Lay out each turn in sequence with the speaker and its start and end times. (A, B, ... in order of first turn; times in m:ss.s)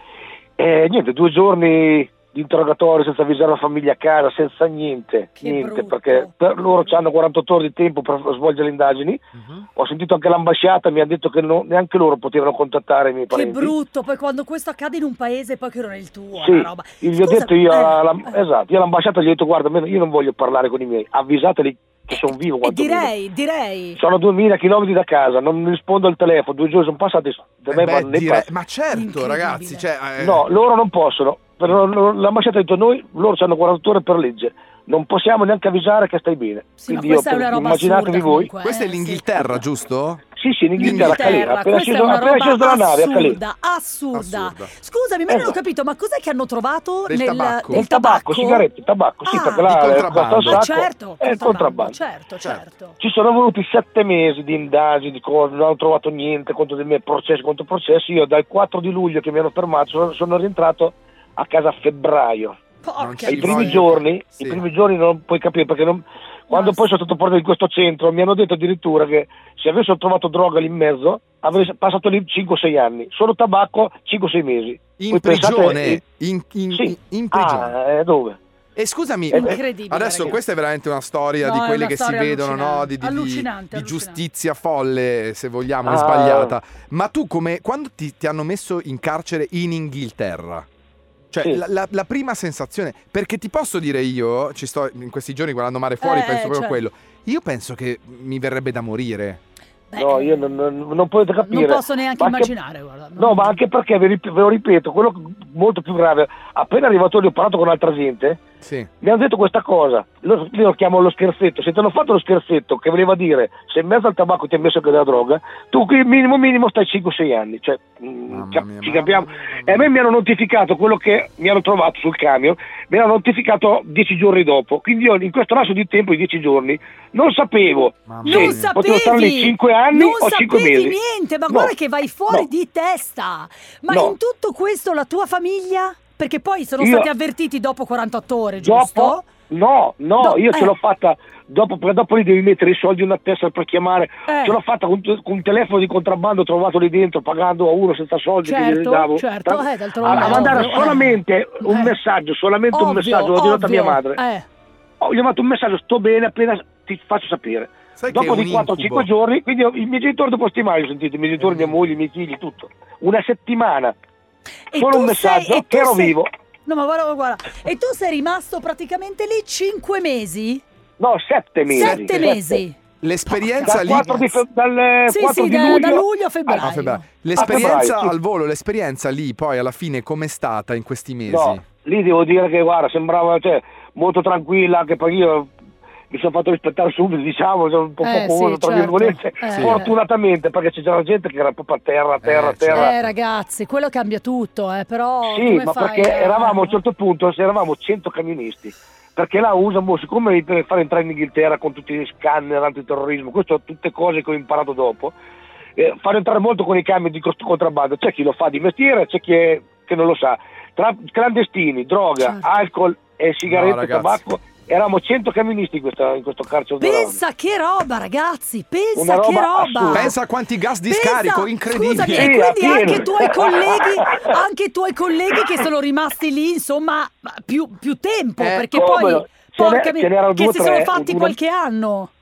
0:00.6-0:09.2 A
0:05.4-0:06.9 B
0:09.4-0:09.7 C
0:09.8-0:13.8 A
0:13.3-0:18.4 B
0:16.4-0:23.1 A
0:22.1-0:24.0 B
0:24.0-0:28.5 A
0:27.7-0:30.4 C
0:28.9-0:29.8 B
0:30.2-0:38.5 A
0:36.8-0:39.6 B
0:38.6-0:40.2 C
0:40.4-0:43.4 A
0:40.8-0:48.7 B
0:40.8-0:41.5 C
0:44.1-0:44.7 C
0:45.3-0:45.6 A
0:47.1-0:47.8 C
0:47.7-0:52.0 A
0:49.2-0:53.0 B
0:49.6-0:50.7 C
0:53.0-1:02.6 A
1:02.8-1:03.9 B
1:03.0-1:04.6 C
1:03.2-1:16.0 A
1:06.5-1:06.9 B
1:15.0-1:17.7 C
1:16.7-1:18.4 A
1:18.8-1:30.7 C
1:19.3-1:20.4 B
1:19.3-1:19.6 A
1:21.4-1:24.2 B
1:25.8-1:26.6 A
1:31.3-1:39.4 C
1:36.0-1:36.8 B
1:39.9-1:40.7 B
1:40.0-1:42.5 A
1:41.4-1:43.6 B
1:43.2-1:48.4 A
1:48.6-1:48.9 C
1:49.0-2:11.0 A
1:58.3-1:59.9 C
2:08.1-2:08.7 C
2:08.2-2:19.2 B
2:13.9-2:14.2 A
2:16.8-2:17.1 A
2:18.6-2:34.2 A
2:20.2-2:20.7 B
2:24.3-2:24.6 B
2:28.4-2:32.0 B
2:30.0-2:30.8 C
2:32.7-2:34.5 B
2:35.0-2:44.0 A
2:38.0-2:39.1 C
2:41.4-2:41.8 C
2:44.7-2:50.6 B
2:44.7-2:46.3 A
2:51.0-2:52.6 A
2:51.7-2:54.1 B
2:53.0-2:54.4 C
2:53.6-2:56.7 A
2:55.1-2:57.9 B
2:56.6-3:01.6 C
2:57.3-2:58.2 A
3:01.3-3:05.5 A
3:06.1-3:12.9 A
3:08.0-3:10.0 B
3:09.5-3:09.8 C
3:12.2-3:13.1 C
3:12.7-3:16.8 B
3:15.2-3:25.2 A
3:25.8-3:37.2 A
3:32.2-3:32.7 B
3:33.5-3:34.2 C
3:36.8-3:40.2 B
3:39.0-3:40.1 A
3:39.9-3:42.4 C
3:40.8-3:52.1 B
3:42.1-3:44.4 A
3:48.4-3:48.7 C
3:48.7-3:51.4 A